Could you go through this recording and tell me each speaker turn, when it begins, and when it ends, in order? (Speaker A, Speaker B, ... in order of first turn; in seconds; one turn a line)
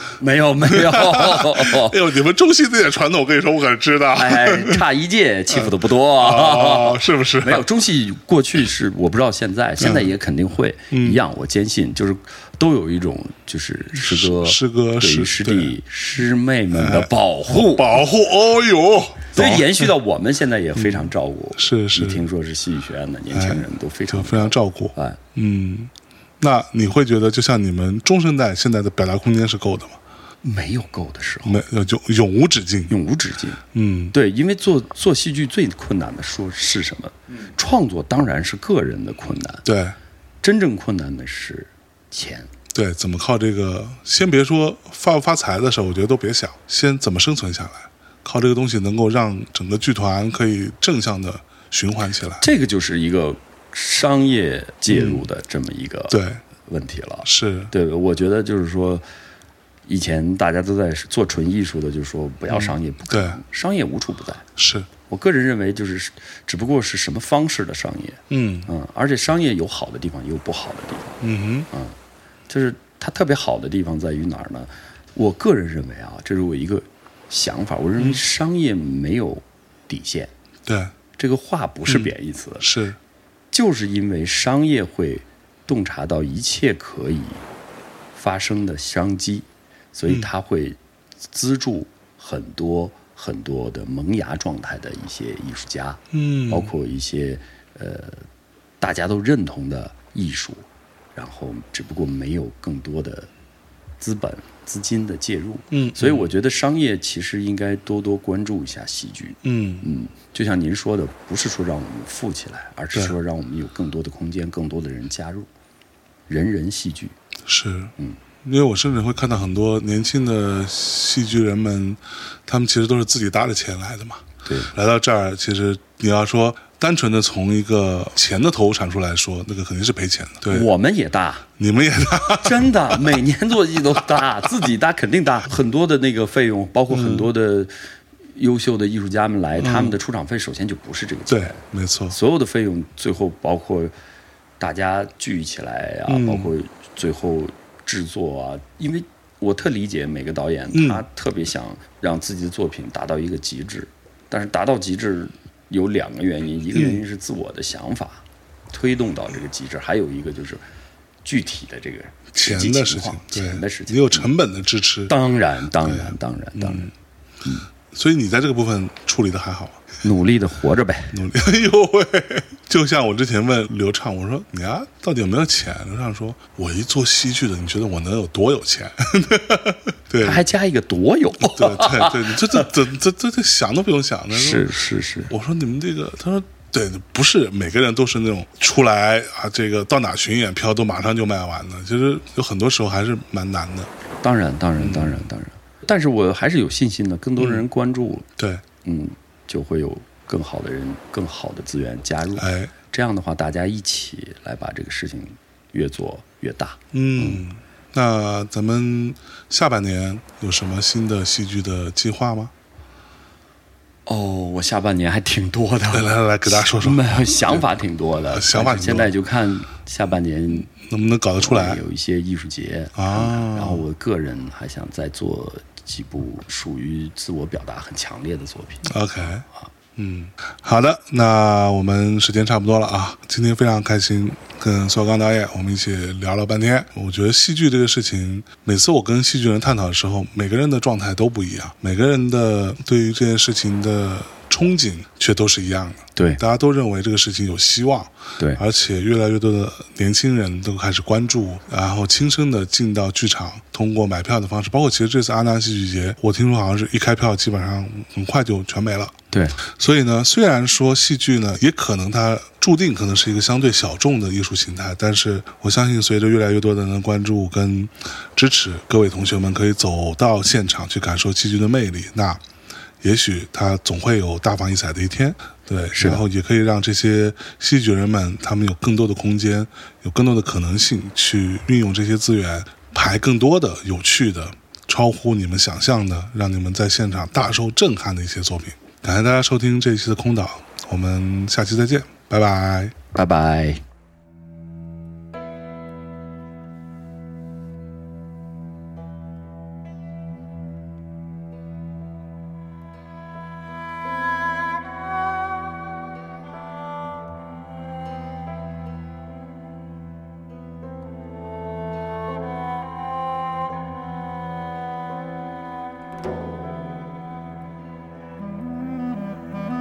Speaker A: 0.2-2.0
Speaker B: 0.6-4.8
Speaker A: 4.2-18.0
Speaker B: 5.5-7.7
Speaker B: 9.8-10.1
Speaker B: 10.9-11.2
Speaker B: 13.9-15.8
Speaker B: 16.7-19.9
Speaker A: 19.3-25.2
Speaker B: 20.8-22.2
Speaker B: 23.3-30.0
Speaker A: 30.4-31.6
Speaker B: 31.4-32.9
Speaker A: 32.9-33.6
Speaker B: 33.7-34.1
Speaker A: 34.1-39.7
Speaker B: 39.6-40.0
Speaker A: 40.4-42.5
Speaker B: 42.7-52.5
Speaker A: 52.4-59.0
Speaker B: 54.9-55.2
Speaker B: 56.1-56.4
Speaker B: 57.2-57.7
Speaker A: 59.9-64.5
Speaker B: 62.5-63.4
Speaker B: 64.6-64.9
Speaker A: 65.1-72.0
Speaker B: 68.3-68.7
Speaker B: 71.2-71.7
Speaker A: 72.5-80.3
Speaker B: 80.7-80.9
Speaker A: 81.2-82.7
Speaker B: 81.9-83.0
Speaker A: 83.5-87.4
Speaker A: 88.2-98.3
Speaker B: 96.1-96.7
Speaker A: 98.8-103.3
Speaker A: 104.0-115.5
Speaker B: 105.7-106.3
Speaker B: 109.4-109.9
Speaker A: 116.3-117.2
Speaker B: 117.5-130.7
Speaker A: 124.5-124.7
Speaker A: 130.5-131.5
Speaker B: 131.6-133.2
Speaker A: 132.3-137.7
Speaker B: 134.0-134.2
Speaker B: 136.9-137.3
Speaker A: 138.3-143.9
Speaker B: 139.6-140.0
Speaker B: 141.3-142.2
Speaker A: 144.6-160.6
Speaker B: 146.1-146.5
Speaker B: 150.7-151.0
Speaker B: 156.7-157.0
Speaker A: 161.2-164.3
Speaker B: 162.3-165.1
Speaker A: 165.1-166.9
Speaker B: 165.8-166.9
Speaker B: 167.9-170.0
Speaker A: 170.0-171.2
Speaker B: 171.1-180.4
Speaker A: 180.2-182.7
Speaker B: 181.4-184.7
Speaker A: 184.3-185.3
Speaker B: 185.3-193.9
Speaker A: 194.2-198.3
Speaker B: 194.8-195.2
Speaker B: 197.4-197.6
Speaker B: 198.4-198.6
Speaker A: 198.8-207.4
Speaker B: 202.4-202.7
Speaker B: 206.9-212.5
Speaker A: 214.1-220.7
Speaker B: 215.9-217.7
Speaker B: 218.3-219.1
Speaker B: 220.7-221.8
Speaker A: 221.4-228.9
Speaker B: 223.0-223.8
Speaker B: 228.9-272.4
Speaker A: 246.2-246.4
Speaker A: 259.3-259.6
Speaker B: 273.0-292.9
Speaker A: 275.9-276.2
Speaker A: 293.1-293.8